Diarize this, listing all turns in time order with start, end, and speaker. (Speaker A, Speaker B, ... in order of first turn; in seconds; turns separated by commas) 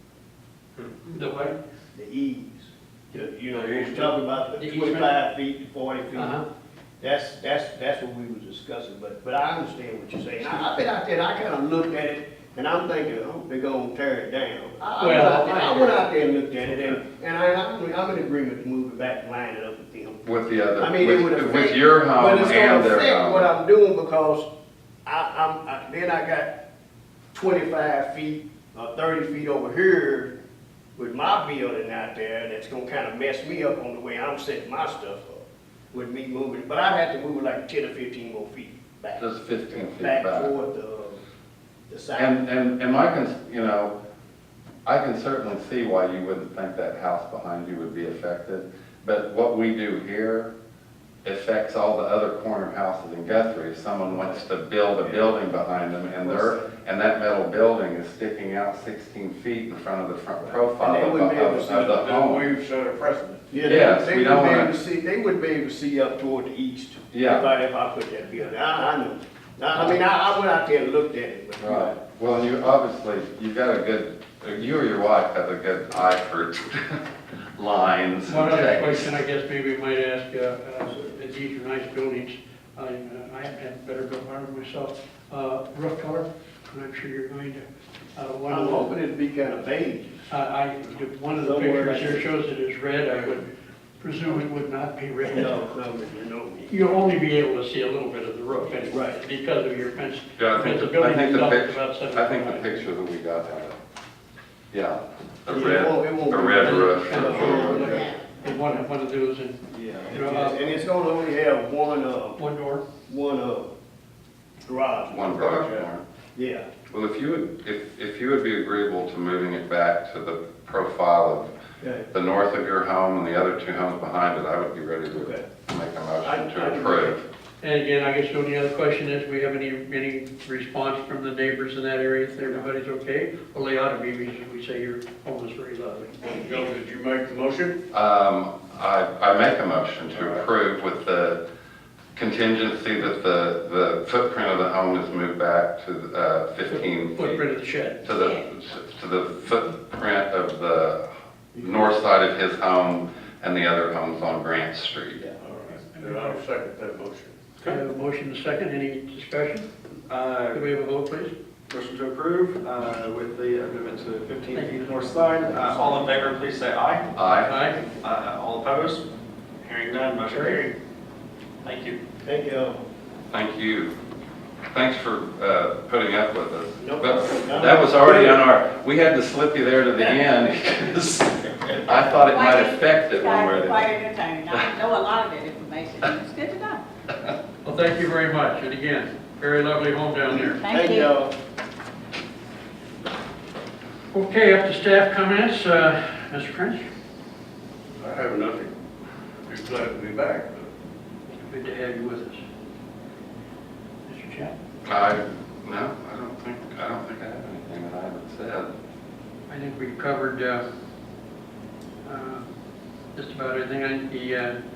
Speaker A: 0.8-1.6, Speaker B: 1.9-6.4, Speaker A: 3.1-5.2, Speaker A: 6.1-6.5, Speaker B: 7.0-20.2, Speaker A: 15.0-16.1, Speaker C: 20.2-23.5, Speaker B: 20.8-24.5, Speaker B: 25.1-26.5, Speaker B: 27.3-30.3, Speaker B: 30.9-41.2, Speaker C: 39.2-40.5, Speaker B: 41.9-42.4, Speaker C: 42.2-43.9, Speaker C: 44.9-50.5, Speaker C: 51.2-62.5, Speaker B: 54.1-54.4, Speaker B: 55.0-55.6, Speaker B: 56.2-56.7, Speaker B: 60.4-61.9, Speaker D: 61.7-63.5, Speaker B: 63.5-72.0, Speaker C: 63.6-64.7, Speaker C: 67.1-67.5, Speaker C: 71.6-77.0, Speaker C: 77.5-79.1, Speaker A: 78.3-87.6, Speaker A: 88.2-88.9, Speaker B: 88.5-90.2, Speaker A: 90.3-93.5, Speaker B: 91.3-92.3, Speaker A: 94.0-95.7, Speaker B: 95.3-96.7, Speaker A: 96.6-102.9, Speaker B: 98.9-99.2, Speaker C: 100.4-103.8, Speaker C: 104.7-108.1, Speaker B: 105.5-108.2, Speaker A: 106.5-110.6, Speaker B: 109.7-112.4, Speaker A: 112.4-112.9, Speaker B: 113.1-113.7, Speaker B: 114.6-116.7, Speaker C: 115.1-116.0, Speaker C: 116.9-121.5, Speaker B: 121.8-122.1, Speaker C: 122.1-127.2, Speaker B: 125.1-125.5, Speaker B: 126.2-127.2, Speaker A: 127.6-136.3, Speaker D: 136.3-137.8, Speaker C: 137.9-141.4, Speaker D: 140.1-140.4, Speaker C: 142.1-147.4, Speaker A: 146.7-148.1, Speaker C: 148.0-151.1, Speaker C: 151.6-155.2, Speaker D: 155.4-157.8, Speaker A: 155.7-156.4, Speaker A: 157.6-159.7, Speaker E: 160.1-160.6, Speaker A: 160.5-161.3, Speaker E: 161.7-167.1, Speaker A: 164.5-165.1, Speaker C: 167.1-167.5, Speaker A: 167.4-167.8, Speaker E: 168.0-169.1, Speaker E: 169.6-170.7, Speaker A: 170.3-170.6, Speaker E: 171.6-172.0, Speaker B: 172.2-172.8, Speaker C: 173.3-173.9, Speaker C: 174.7-183.9, Speaker B: 176.8-178.4, Speaker F: 182.2-186.8, Speaker A: 187.6-190.6, Speaker B: 190.3-191.3, Speaker F: 190.6-191.1, Speaker A: 194.1-196.8, Speaker D: 198.0-198.7, Speaker D: 199.5-200.7, Speaker A: 201.4-202.4, Speaker A: 204.1-204.5, Speaker C: 204.8-208.7, Speaker A: 209.5-210.6, Speaker A: 212.0-212.5, Speaker A: 213.1-214.6